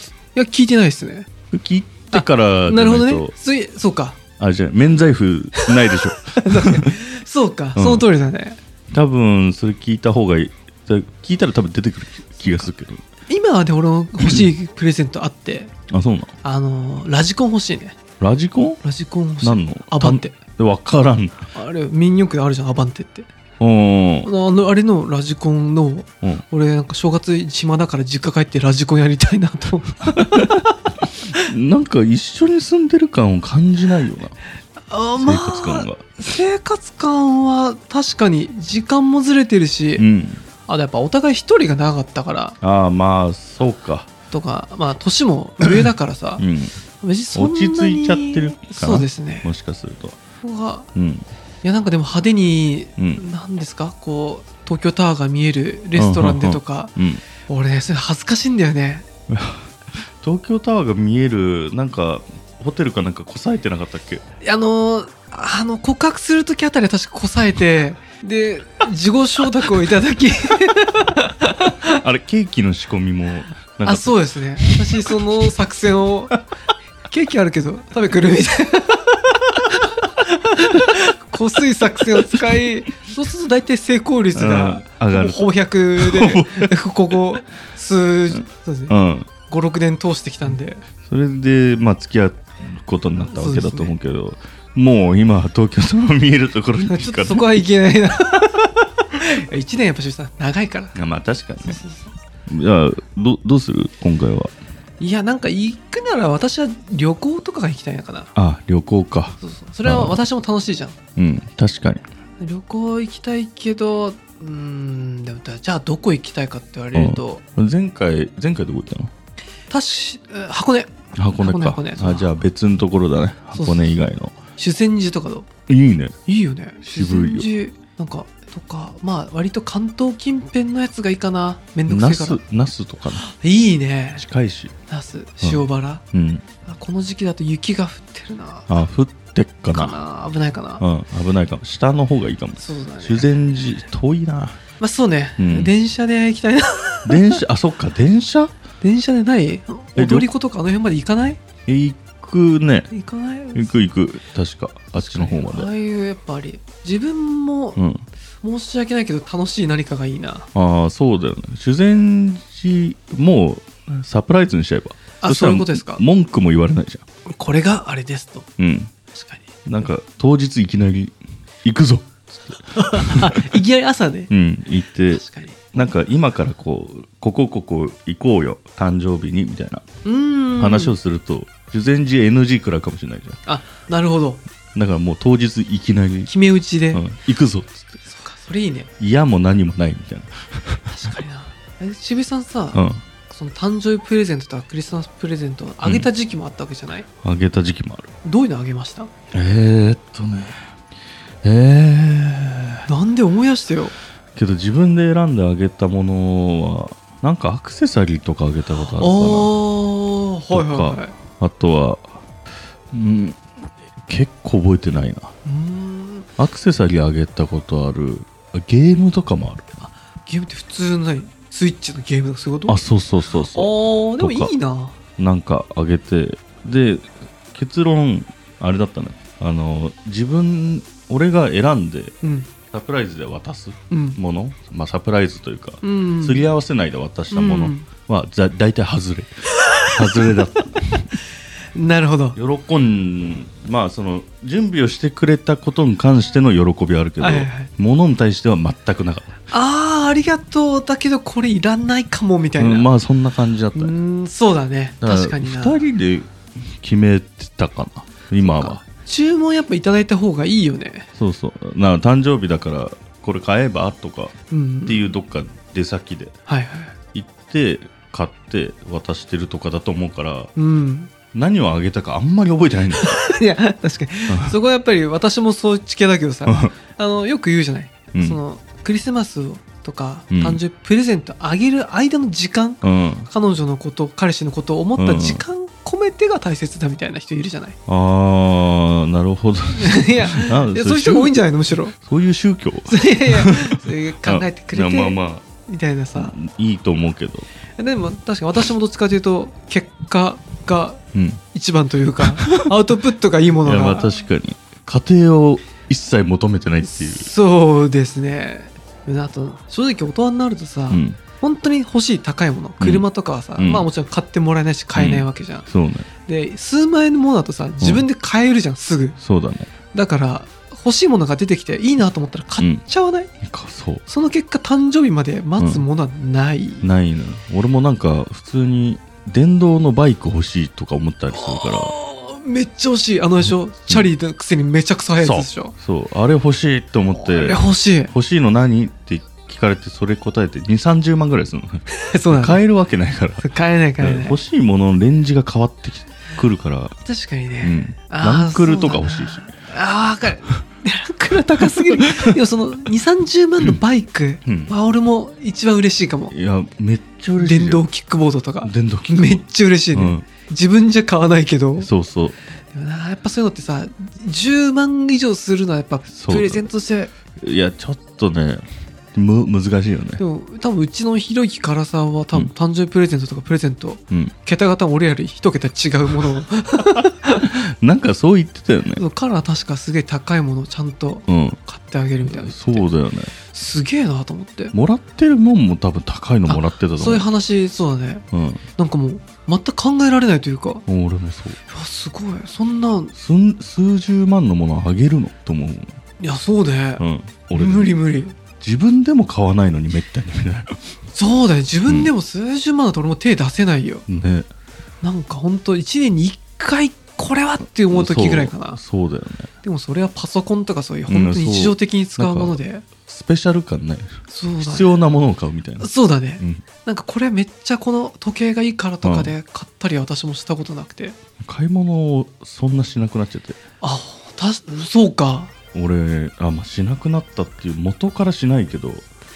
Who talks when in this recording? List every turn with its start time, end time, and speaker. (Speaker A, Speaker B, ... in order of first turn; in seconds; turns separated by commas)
Speaker A: 0.3-1.3, Speaker B: 1.5-3.3, Speaker A: 2.1-4.2, Speaker B: 4.4-6.9, Speaker A: 5.5-8.6, Speaker B: 7.8-8.1, Speaker B: 8.9-13.0, Speaker A: 13.3-15.7, Speaker B: 14.2-14.5, Speaker B: 15.9-16.3, Speaker A: 16.4-18.0, Speaker B: 18.2-18.8, Speaker A: 18.8-20.4, Speaker B: 19.4-21.5, Speaker A: 21.5-23.3, Speaker B: 23.6-24.3, Speaker A: 24.2-30.7, Speaker B: 30.2-30.6, Speaker B: 31.3-34.4, Speaker A: 34.9-40.1, Speaker B: 35.2-36.1, Speaker B: 40.0-40.4, Speaker A: 40.7-42.6, Speaker B: 42.6-44.1, Speaker A: 44.3-46.4, Speaker B: 45.6-45.9, Speaker B: 46.4-46.8, Speaker A: 47.0-49.5, Speaker B: 47.3-50.2, Speaker A: 50.4-50.9, Speaker B: 50.9-51.3, Speaker A: 51.6-56.9, Speaker B: 56.0-57.2, Speaker A: 57.5-59.1, Speaker B: 59.3-59.7, Speaker B: 60.2-64.2, Speaker A: 64.4-71.9, Speaker B: 71.8-75.5, Speaker A: 73.8-76.3, Speaker A: 77.1-88.9, Speaker B: 84.3-86.7, Speaker B: 88.3-89.3, Speaker A: 89.5-90.8, Speaker B: 91.0-97.6, Speaker A: 93.2-94.0, Speaker A: 96.8-101.0, Speaker B: 100.9-101.8, Speaker A: 101.6-102.1, Speaker B: 102.5-104.5, Speaker A: 105.0-108.3, Speaker B: 108.3-110.2, Speaker A: 109.4-111.0, Speaker B: 111.2-112.0, Speaker A: 112.4-117.4, Speaker B: 116.9-119.1, Speaker A: 119.7-122.3, Speaker B: 121.2-124.4, Speaker A: 123.5-124.0, Speaker A: 124.6-125.5, Speaker B: 125.7-126.2, Speaker A: 126.3-132.4, Speaker B: 126.8-127.5, Speaker B: 131.9-133.2, Speaker A: 133.2-134.2, Speaker B: 134.2-134.7, Speaker A: 134.9-136.0, Speaker B: 135.4-136.5, Speaker A: 136.7-138.7, Speaker B: 138.7-140.0, Speaker A: 139.7-140.8, Speaker B: 140.8-144.6, Speaker A: 142.6-143.3, Speaker A: 144.8-147.4, Speaker B: 145.4-145.7, Speaker B: 147.1-148.5, Speaker A: 148.8-151.4, Speaker B: 149.9-150.3, Speaker B: 151.7-152.9, Speaker A: 152.9-153.8, Speaker B: 153.5-155.7, Speaker A: 155.0-157.8, Speaker B: 157.8-158.1, Speaker A: 158.4-160.5, Speaker B: 160.5-167.0, Speaker A: 165.2-166.0, Speaker A: 167.3-168.5, Speaker B: 168.6-168.9, Speaker A: 169.1-169.5, Speaker B: 169.7-173.5, Speaker A: 172.8-174.3, Speaker B: 174.3-179.8, Speaker A: 175.1-175.7, Speaker A: 180.1-180.9, Speaker B: 180.6-183.4, Speaker A: 183.5-184.4, Speaker B: 184.8-186.3, Speaker A: 186.3-187.0, Speaker B: 186.9-187.8, Speaker A: 188.1-188.9, Speaker B: 189.0-191.1, Speaker A: 190.9-197.1, Speaker B: 192.7-193.0, Speaker B: 195.8-196.1, Speaker B: 197.2-198.1, Speaker A: 198.2-199.1, Speaker B: 199.3-200.7, Speaker B: 201.4-202.8, Speaker A: 202.9-204.0, Speaker B: 204.3-209.5, Speaker A: 209.0-211.2, Speaker B: 210.5-212.2, Speaker B: 212.9-213.4, Speaker B: 214.1-215.3, Speaker A: 215.4-216.3, Speaker B: 216.4-219.7, Speaker A: 219.8-225.0, Speaker B: 222.7-224.5, Speaker B: 225.2-232.1, Speaker A: 232.2-232.5, Speaker B: 232.7-239.3, Speaker A: 233.9-234.2, Speaker A: 235.8-236.4, Speaker A: 237.3-237.9, Speaker B: 239.9-241.1, Speaker A: 241.8-242.4, Speaker B: 242.3-249.4, Speaker A: 247.2-247.7, Speaker A: 249.5-252.9, Speaker B: 252.6-253.9, Speaker A: 253.8-255.9, Speaker B: 255.0-258.8, Speaker A: 258.4-261.1, Speaker B: 261.2-264.3, Speaker A: 264.5-265.0, Speaker B: 264.9-266.3, Speaker A: 266.5-266.9, Speaker B: 267.1-270.5, Speaker A: 270.6-271.1, Speaker B: 271.3-273.2, Speaker A: 272.9-287.8, Speaker B: 274.3-274.6, Speaker B: 276.5-276.7, Speaker B: 278.1-278.4, Speaker B: 280.3-280.6, Speaker B: 282.8-283.3, Speaker B: 285.0-285.4, Speaker B: 287.9-291.4, Speaker A: 289.7-291.9, Speaker B: 291.9-295.5, Speaker A: 292.9-296.4, Speaker B: 296.1-297.5, Speaker A: 297.8-301.0, Speaker B: 301.1-301.4, Speaker A: 301.5-304.1, Speaker B: 302.2-302.7, Speaker B: 303.6-307.3, Speaker A: 307.0-315.7, Speaker B: 310.9-311.2, Speaker B: 312.8-313.1, Speaker B: 313.6-313.9, Speaker B: 314.9-316.1, Speaker A: 316.3-319.2, Speaker B: 319.2-319.7, Speaker A: 319.9-323.3, Speaker B: 322.6-322.8, Speaker B: 323.4-324.0, Speaker A: 324.1-326.9, Speaker B: 325.6-325.8, Speaker B: 326.8-331.9, Speaker A: 331.4-335.7, Speaker B: 335.2-343.5, Speaker A: 337.1-338.1, Speaker A: 341.9-342.6, Speaker A: 343.4-344.4, Speaker B: 344.0-347.0, Speaker A: 347.1-356.3, Speaker B: 347.6-349.5, Speaker B: 351.8-352.3, Speaker B: 354.4-354.7, Speaker B: 356.3-357.9, Speaker A: 357.4-361.9, Speaker B: 358.6-360.2, Speaker B: 361.8-362.4, Speaker A: 362.7-367.1, Speaker B: 366.1-366.6, Speaker B: 367.4-370.2, Speaker A: 370.2-377.5, Speaker B: 377.4-379.0, Speaker A: 379.0-382.9, Speaker B: 381.3-381.6, Speaker B: 382.2-383.3, Speaker A: 383.5-384.7, Speaker B: 384.7-387.2, Speaker A: 386.5-388.2, Speaker B: 388.3-388.6, Speaker A: 388.8-390.9, Speaker B: 390.9-391.6, Speaker A: 391.7-393.1, Speaker B: 393.1-396.0, Speaker A: 396.2-398.4, Speaker B: 397.0-397.9, Speaker B: 398.6-400.8, Speaker A: 401.1-404.1, Speaker B: 404.1-404.5, Speaker A: 405.0-408.8, Speaker B: 407.9-409.5, Speaker A: 409.6-412.9, Speaker B: 411.1-415.9, Speaker A: 414.3-415.0, Speaker A: 415.8-421.2, Speaker B: 419.0-419.3, Speaker B: 421.4-423.6, Speaker A: 423.8-425.5, Speaker B: 425.7-429.1